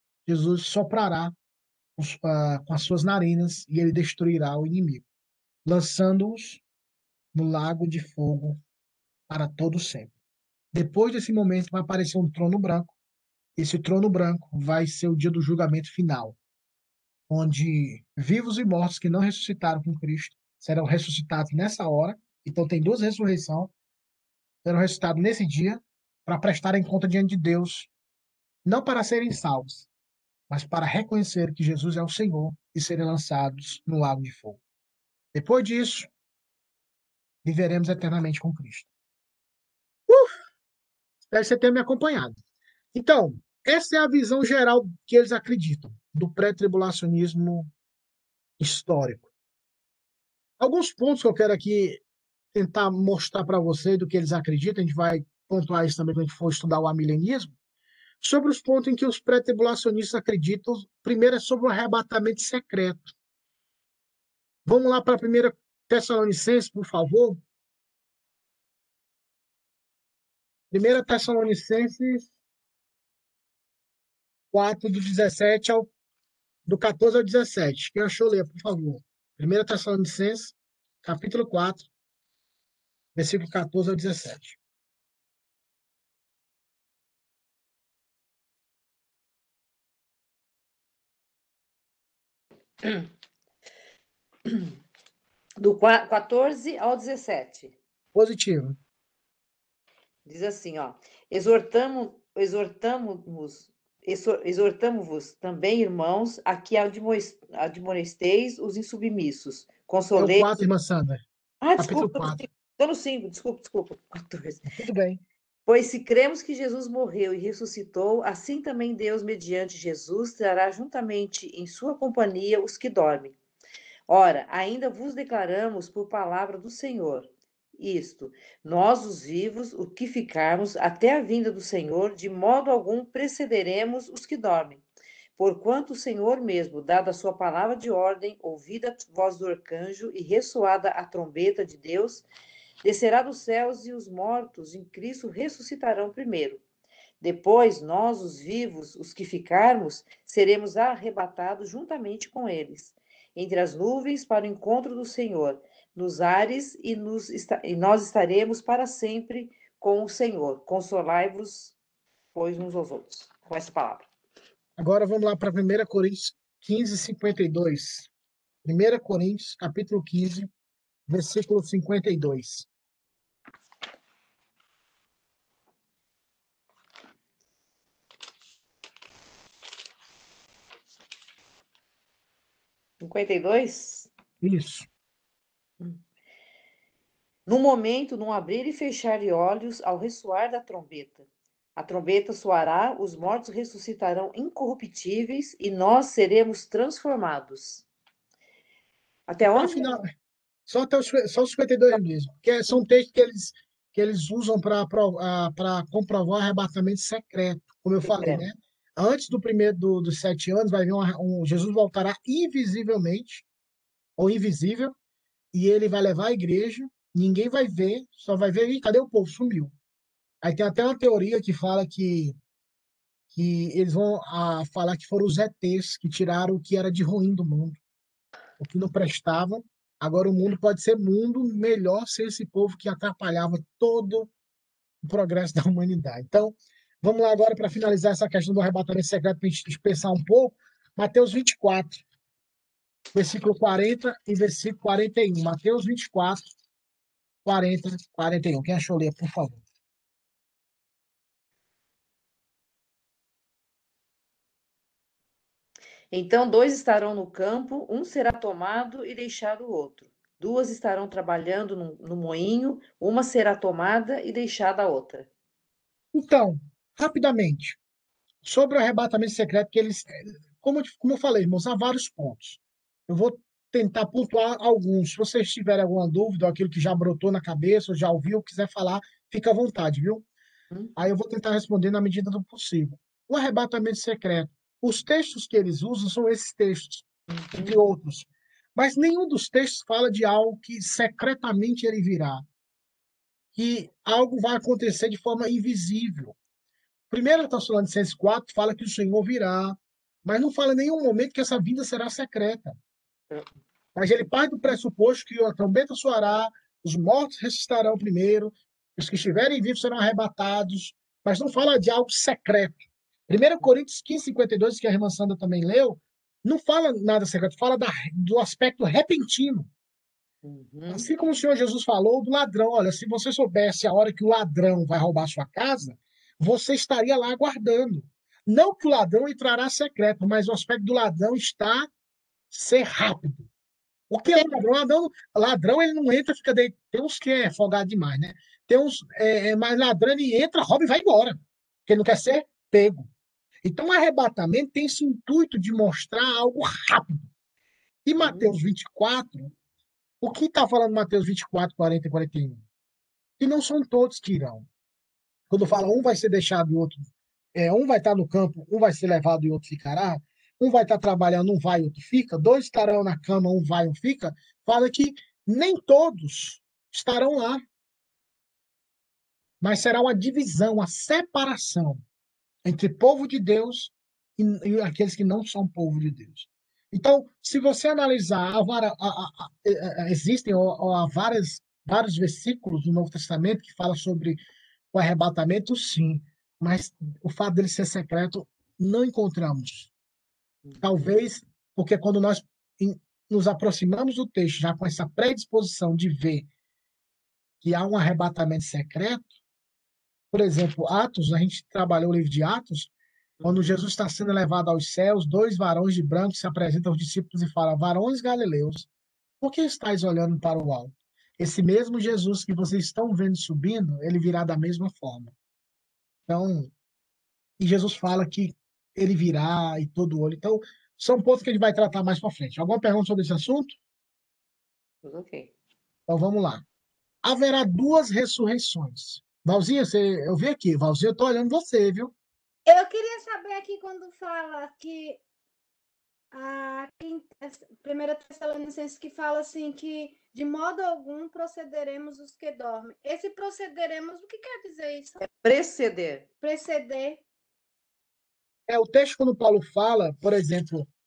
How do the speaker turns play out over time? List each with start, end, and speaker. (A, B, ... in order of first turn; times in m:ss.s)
0:00.3-0:01.3 A
0:02.0-0:05.0 A
0:05.6-0:06.6 A
0:07.3-0:08.6 A
0:09.3-0:10.1 A
0:10.7-0:12.9 A
0:13.6-0:16.4 A
0:17.3-0:23.7 A
0:24.6-0:27.9 A
0:28.6-0:29.9 A
0:30.5-0:34.6 A
0:35.3-0:36.1 A
0:37.4-0:38.9 A
0:40.1-0:40.4 A
0:41.3-0:42.4 A
0:42.9-0:47.7 A
0:48.6-0:49.3 A
0:50.6-0:52.0 A
0:52.5-0:57.5 A
0:58.2-1:03.1 A
1:04.7-1:07.4 A
1:10.7-1:12.3 A
1:14.5-1:15.9 A
1:16.7-1:21.9 A
1:23.2-1:24.6 A
1:35.6-1:37.8 B
1:38.2-1:38.8 A
1:40.2-1:50.6 B
1:50.2-1:51.2 A
1:51.6-1:54.7 B
1:51.8-1:52.4 A
1:54.7-1:55.2 A
1:55.7-2:03.4 B
2:04.1-2:14.8 B
2:15.4-2:22.3 B
2:22.8-2:26.6 B
2:27.2-2:41.8 B
2:42.3-2:44.1 B
2:44.8-2:48.1 A
2:48.6-2:50.5 A
2:51.1-2:52.7 A
3:03.0-3:04.1 B
3:04.4-3:04.9 A
3:07.5-3:17.8 B
3:19.3-3:19.9 B
3:19.5-3:20.1 A
3:20.7-3:33.5 A
3:28.0-3:28.4 B
3:34.2-3:34.9 A
3:35.5-3:39.7 A
3:40.4-3:42.4 A
3:43.3-3:47.8 A
3:48.6-3:54.3 A
3:55.0-4:02.0 A
4:03.1-4:06.4 A
4:07.4-4:09.6 A
4:16.1-4:25.3 B
4:26.1-4:27.8 A
4:28.4-4:40.2 A
4:41.0-4:52.4 A
4:47.3-4:47.8 B
4:53.6-4:56.4 A
4:57.1-5:02.8 A
5:04.0-5:19.7 A
5:20.4-5:21.1 B
5:20.9-5:31.9 A
5:32.5-5:33.5 A
5:34.1-5:43.1 A
5:43.6-5:47.3 A
5:48.0-5:49.5 A
5:48.2-5:48.6 B
5:50.2-5:52.6 A
5:53.4-5:54.7 A
5:55.5-5:57.0 A
5:57.6-6:07.6 A
6:09.6-6:12.0 A
6:12.6-6:24.4 A
6:24.9-6:29.9 A
6:30.8-6:36.5 A
6:37.6-6:39.3 A
6:40.3-6:42.9 A
6:43.4-6:48.9 A
6:49.4-6:55.3 A
6:56.3-6:56.7 A
6:57.6-7:03.8 A
7:05.0-7:05.5 B
7:06.1-7:06.6 A
7:07.2-7:12.1 A
7:12.7-7:15.2 C
7:16.3-7:25.2 C
7:25.2-7:26.3 B
7:26.4-7:27.2 C
7:28.7-7:30.9 A